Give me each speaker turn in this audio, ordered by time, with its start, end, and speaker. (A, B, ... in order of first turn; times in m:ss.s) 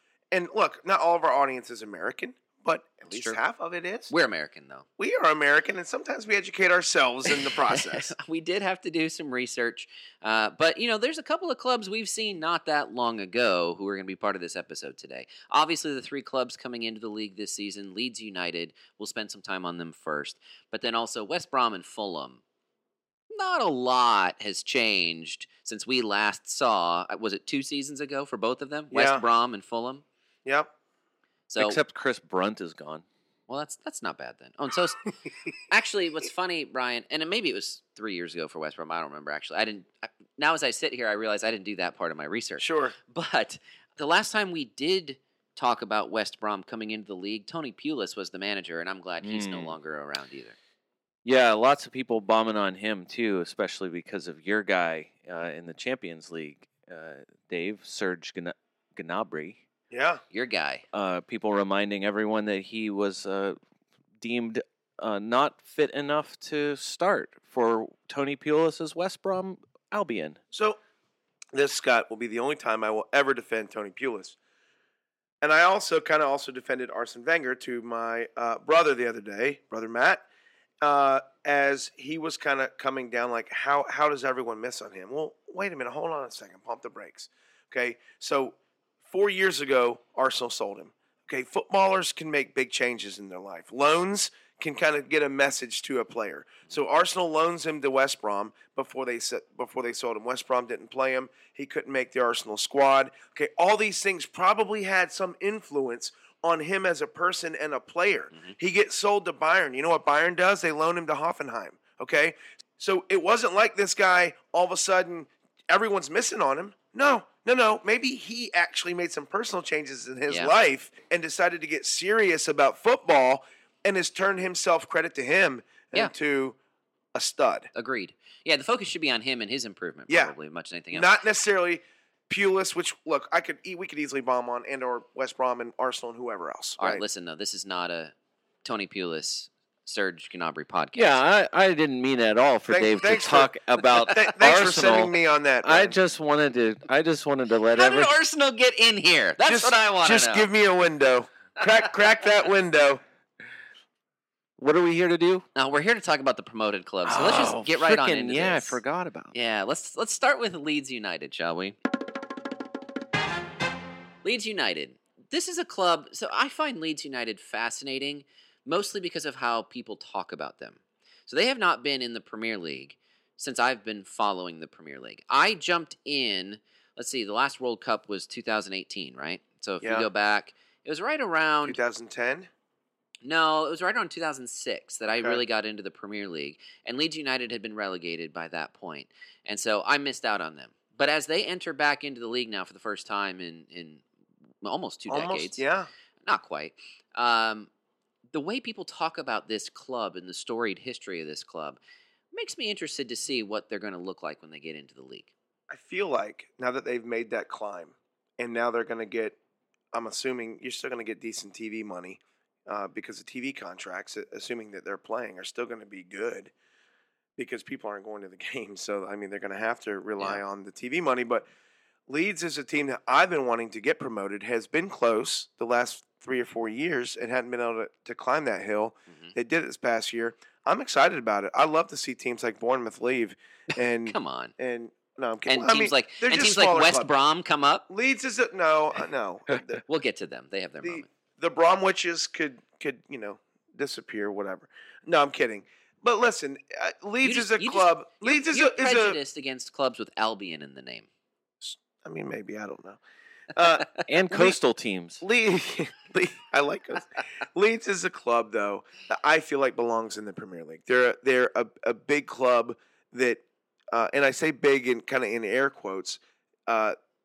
0:00.3-0:04.1 A
0:03.1-0:03.4 B
0:04.1-0:04.8 B
0:05.0-0:08.1 A
0:07.5-0:22.4 B
0:23.3-0:30.0 B
0:28.9-0:29.2 A
0:30.4-0:30.7 A
0:31.5-0:31.8 B
0:31.6-0:33.0 C
0:33.5-0:35.1 B
0:35.7-0:50.6 B
0:42.6-0:42.9 A
0:49.2-0:49.7 C
0:51.2-0:59.6 C
0:59.9-1:00.2 A
1:00.3-1:00.8 B
1:00.9-1:03.6 C
1:04.2-1:10.4 C
1:10.5-1:10.8 A
1:11.5-1:14.4 A
1:15.4-1:20.2 A
1:20.8-2:06.6 A
2:07.1-2:07.7 A
2:07.7-2:11.1 B
2:10.1-2:10.3 A
2:10.9-2:17.0 A
2:16.8-2:21.2 B
2:20.9-2:28.1 C
2:22.7-2:26.0 A
2:27.7-2:30.5 B
2:29.4-2:33.0 A
2:34.6-2:35.4 C
2:35.5-2:38.8 B
2:37.0-2:39.3 C
2:39.3-2:41.8 B
2:44.2-3:01.8 B
2:59.8-3:00.1 A
3:01.6-3:02.5 A
3:03.2-3:14.0 B
3:14.6-3:15.6 B
3:15.1-3:15.9 A
3:16.2-3:17.7 B
3:18.3-3:21.8 B
3:22.3-3:25.3 B
3:25.7-3:29.4 A
3:29.9-3:36.5 A
3:37.4-3:41.5 A
3:40.2-3:40.4 B
3:42.1-3:57.1 A
3:54.0-3:54.5 B
3:55.5-3:57.8 B
3:57.9-3:59.8 A
3:59.8-4:01.1 B
4:00.8-4:09.2 A
4:07.2-4:11.1 B
4:11.6-4:13.0 A
4:13.5-4:14.6 A
4:14.0-4:15.2 C
4:15.2-4:26.9 A